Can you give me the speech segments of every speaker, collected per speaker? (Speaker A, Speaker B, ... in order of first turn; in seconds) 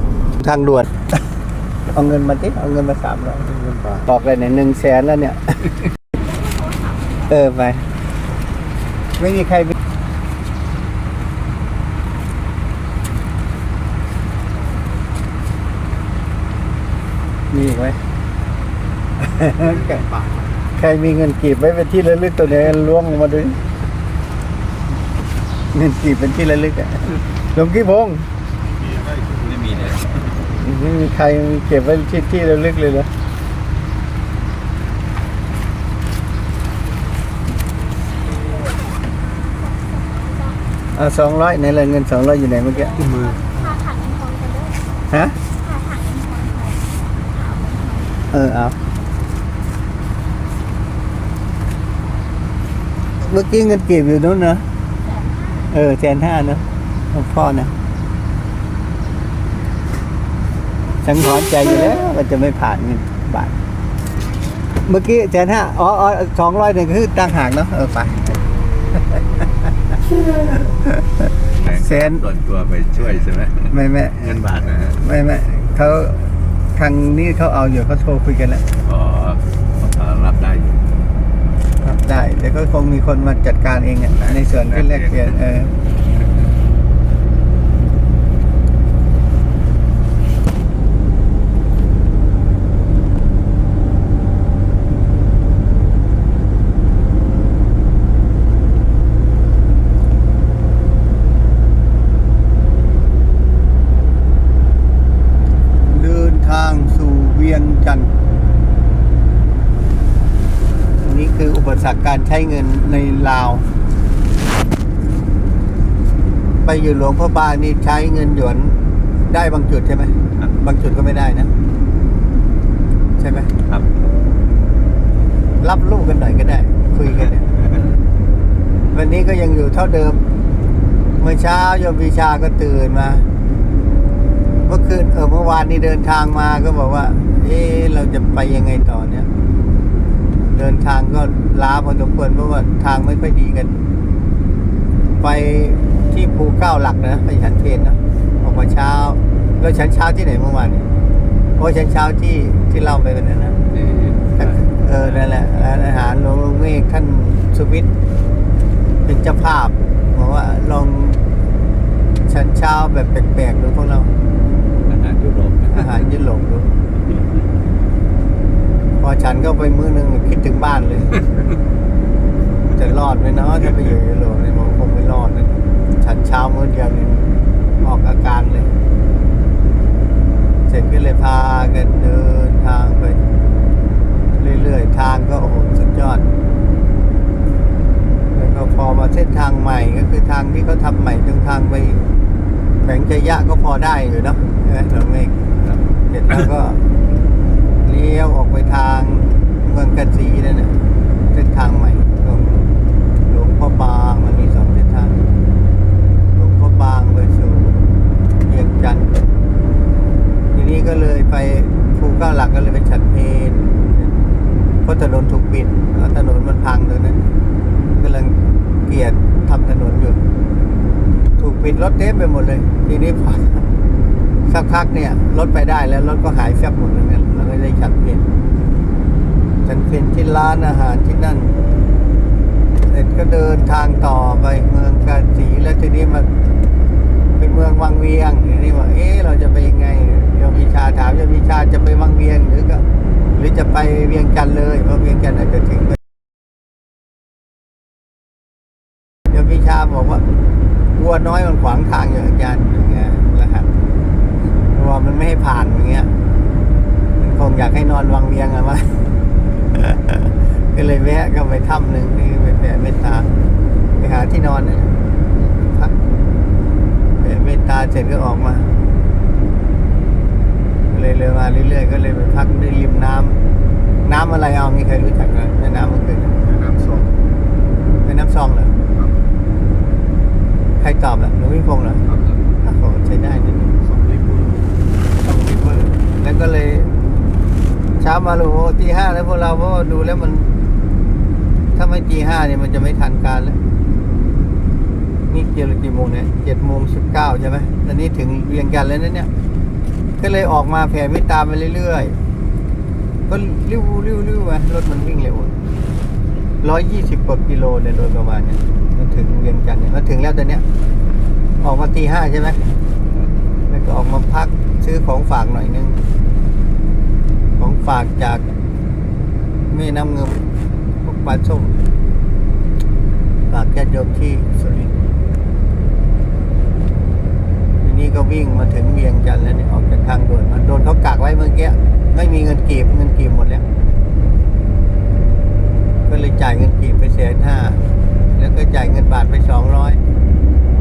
Speaker A: 0.3-1.0, 1.9-5.7, 7.3-7.8, 9.2-9.7, 17.5-18.0, 19.2-20.1, 20.8-23.6, 25.7-28.2, 30.4-33.1, 40.9-43.1, 45.1-45.4, 48.3-48.7, 53.2-54.6, 55.7-57.7, 61.0-63.5, 64.8-68.4, 70.5-72.2, 73.7-74.3, 75.0-78.6, 81.8-85.7, 105.8-108.1, 111.0-113.7, 116.6-121.5, 123.2-123.5, 125.6-127.5, 128.9-130.2, 131.2-133.3, 134.7-139.3, 140.5-143.8, 145.2-150.9, 151.6-153.6, 154.4-157.9, 159.0-161.2, 162.3-164.1, 165.7-166.7, 169.0-171.2, 172.7-178.7, 180.7-183.2, 184.4-186.2, 188.3-192.0, 192.8-195.3, 196.1-196.8, 197.8-200.7, 201.3-205.2, 206.3-207.8, 208.4-209.2, 210.5-214.1, 214.8-217.2, 217.9-220.2, 221.4-223.7, 224.5-228.3, 229.6-231.6, 232.9-236.3, 237.4-246.0, 249.3-250.2, 250.9-253.8, 254.7-256.1, 257.2-259.0, 259.7-263.3, 264.0-265.9, 267.2-268.7, 270.9-273.4, 274.0-276.4, 278.0-278.8, 280.8-282.1, 282.6-283.7, 285.2-286.9, 288.0-290.5, 291.7-293.6, 295.3-299.3, 300.2-302.2, 303.3-305.5, 306.6-310.6, 311.6-312.6, 313.7-316.0, 317.6-318.4, 319.7-320.5, 321.0-321.8, 323.5-324.9, 327.8-333.6, 336.1-337.8, 338.3-340.0
Speaker B: 6.2-7.3, 38.5-40.6, 43.0-44.8, 45.6-48.2, 55.0-55.7
Speaker C: 29.3-30.0, 43.1-43.5, 71.5-75.0, 78.8-80.9, 84.7-85.2, 153.7-154.6, 164.8-166.0, 282.1-282.4, 283.9-284.5